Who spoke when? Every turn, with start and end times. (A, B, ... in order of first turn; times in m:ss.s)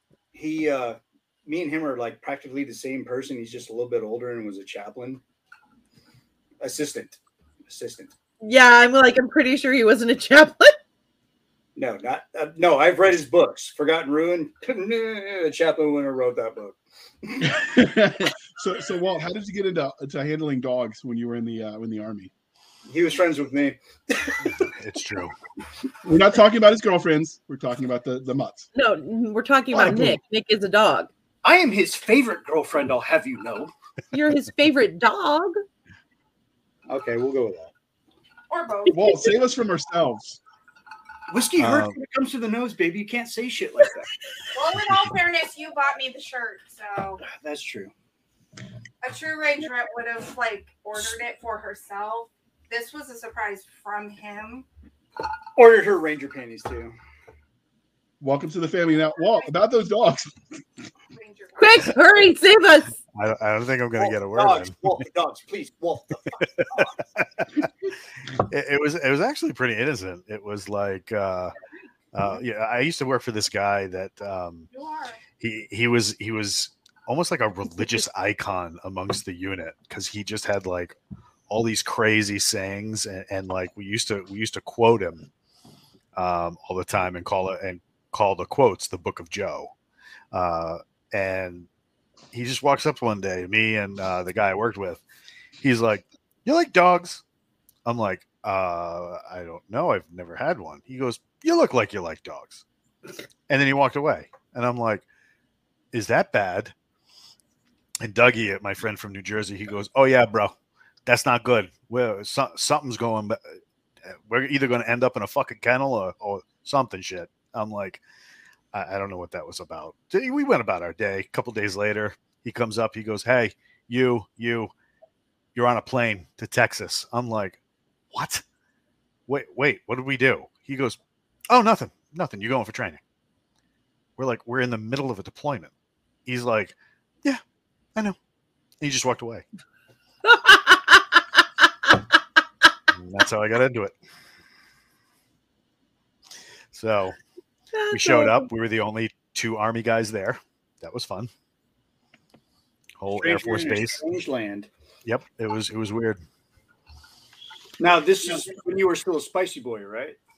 0:00.3-0:05.2 A
0:06.6-0:08.1 A
0:08.4-0:10.7 B
0:11.8-0:17.6 A
0:17.4-0:22.3 C
0:22.9-0:24.7 A
0:24.6-0:25.3 D
0:26.0-0:28.7 C
0:28.7-0:31.1 B
0:29.7-0:30.2 C
0:31.4-0:33.7 A
0:34.1-0:35.6 B
0:36.9-0:37.7 A
0:38.5-0:39.3 E
0:38.9-0:40.4 C
0:41.3-0:44.1 A
0:41.6-0:42.0 D
0:44.5-0:47.2 E
0:47.2-0:47.9 A
0:49.0-0:54.6 E
0:55.6-0:56.9 A
0:58.2-1:00.6 C
1:01.1-1:02.0 E
1:01.6-1:03.0 B
1:03.1-1:04.8 D
1:04.0-1:06.9 A
1:06.6-1:07.5 D
1:08.3-1:11.5 D
1:12.1-1:14.7 D
1:14.7-1:15.2 E
1:15.4-1:21.0 D
1:21.5-1:25.3 D
1:26.2-1:29.7 D
1:30.3-1:31.7 D
1:32.3-1:35.0 D
1:35.6-1:37.2 D
1:37.8-1:42.6 D
1:43.5-1:45.0 D
1:45.9-1:46.7 D
1:48.0-1:50.5 D
1:51.0-1:53.4 D
1:54.0-1:58.0 D
1:58.7-2:04.7 D
2:05.5-2:07.6 D
2:08.1-2:08.4 D
2:09.3-2:11.0 D
2:11.5-2:13.0 D
2:14.2-2:15.7 D
2:16.2-2:17.4 D
2:18.8-2:19.4 D
2:20.2-2:21.2 B
2:22.9-2:23.9 D
2:26.7-2:27.2 D
2:27.7-2:28.5 B
2:27.9-2:31.3 D
2:33.0-2:34.0 D
2:33.2-2:34.7 A
2:35.0-2:36.2 D
2:37.8-2:40.2 A